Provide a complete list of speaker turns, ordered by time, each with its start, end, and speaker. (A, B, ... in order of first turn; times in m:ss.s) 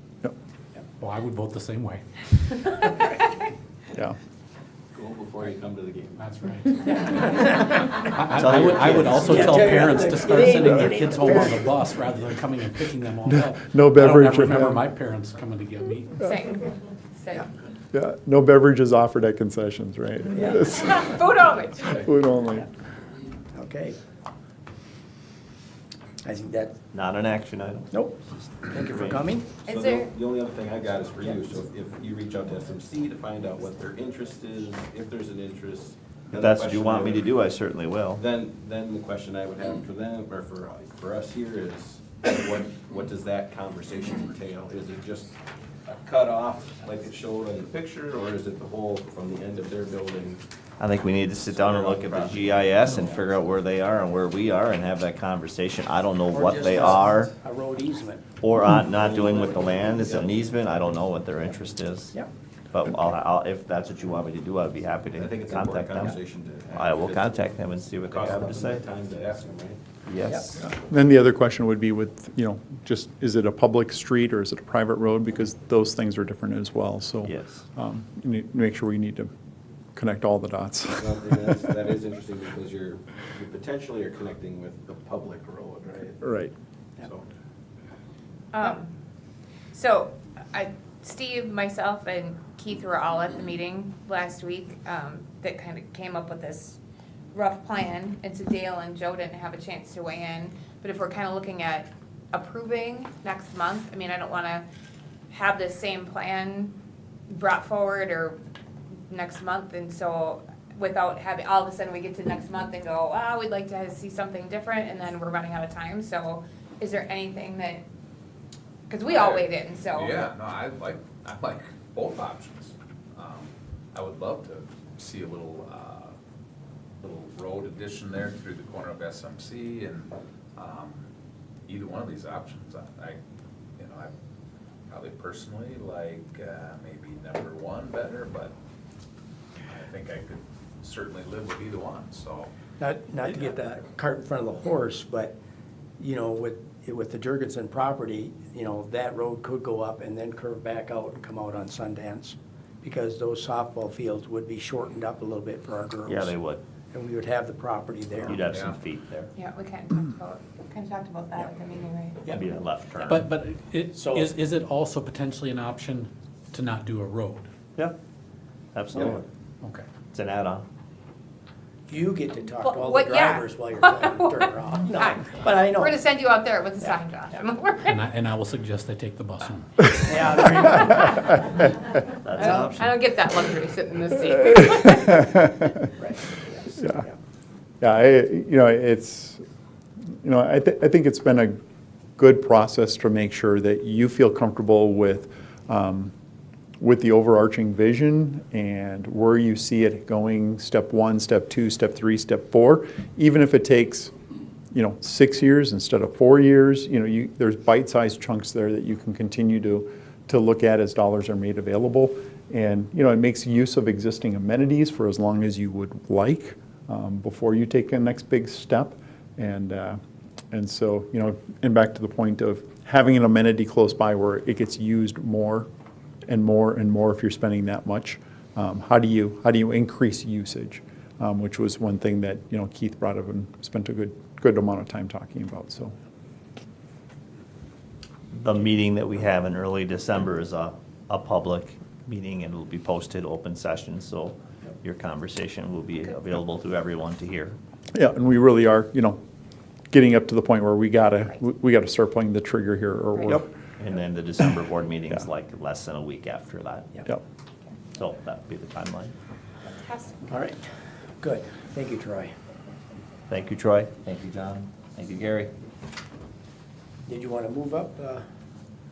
0:01.0-0:02.5 A
0:02.6-0:03.3 B
0:04.9-0:06.3 C
0:06.2-0:07.3 A
0:06.9-0:07.6 B
0:08.0-0:16.2 A
0:08.4-0:09.3 D
0:09.3-0:11.5 E
0:13.3-0:14.8 F
0:16.2-0:17.5 B
0:17.9-0:21.2 F
0:20.3-0:20.6 E
0:20.6-0:22.0 B
0:22.0-0:22.7 F
0:23.5-0:24.0 E
0:26.2-0:26.8 E
0:26.9-0:29.2 D
0:27.9-0:29.6 E
0:29.6-0:37.3 C
0:29.6-0:30.1 B
0:36.4-0:38.2 D
0:38.2-0:45.4 C
0:45.9-0:50.4 C
0:50.8-0:57.3 D
0:51.2-0:53.2 C
0:56.3-0:58.3 E
0:58.4-1:02.2 D
0:58.8-1:00.5 C
1:02.7-1:06.2 D
1:05.1-1:09.8 C
1:06.8-1:08.8 D
1:10.0-1:10.6 D
1:10.6-1:19.3 F
1:17.2-1:17.6 D
1:20.0-1:21.6 F
1:21.0-1:26.2 C
1:26.2-1:26.5 F
1:28.5-1:28.9 B
1:29.7-1:36.8 B
1:37.3-1:44.6 B
1:45.3-1:46.8 B
1:47.3-1:48.4 B
1:49.1-1:57.8 B
1:58.9-2:00.3 B
1:59.1-2:06.1 G
2:07.0-2:11.1 G
2:11.7-2:13.2 G
2:13.8-2:14.1 G
2:14.9-2:18.5 G
2:19.6-2:22.5 G
2:22.8-2:25.4 E
2:26.0-2:36.4 E
2:36.1-2:36.6 D
2:36.9-2:38.4 E
2:38.3-2:39.3 D
2:38.3-2:38.8 G
2:39.4-2:42.4 B
2:42.3-2:43.2 D
2:43.1-2:47.5 A
2:43.9-2:44.3 E
2:48.7-2:49.2 D
2:50.1-2:50.6 D
2:51.9-2:56.0 E
2:52.6-2:58.0 B
2:57.8-2:59.9 A
3:00.0-3:01.3 E
3:02.3-3:02.9 D
3:02.3-3:05.4 B
3:06.0-3:07.0 E
3:07.8-3:09.4 F
3:10.2-3:11.6 F
3:12.2-3:16.1 F
3:16.8-3:24.1 F
3:24.7-3:40.0 F
3:40.5-3:45.7 F
3:46.3-3:55.9 F
3:58.3-4:07.6 D
4:08.0-4:09.2 F
4:09.9-4:13.5 F
4:13.8-4:17.0 D
4:18.0-4:19.1 D
4:19.6-4:20.4 B
4:20.3-4:20.6 E
4:21.2-4:22.3 E
4:23.3-4:25.5 D
4:27.1-4:28.2 E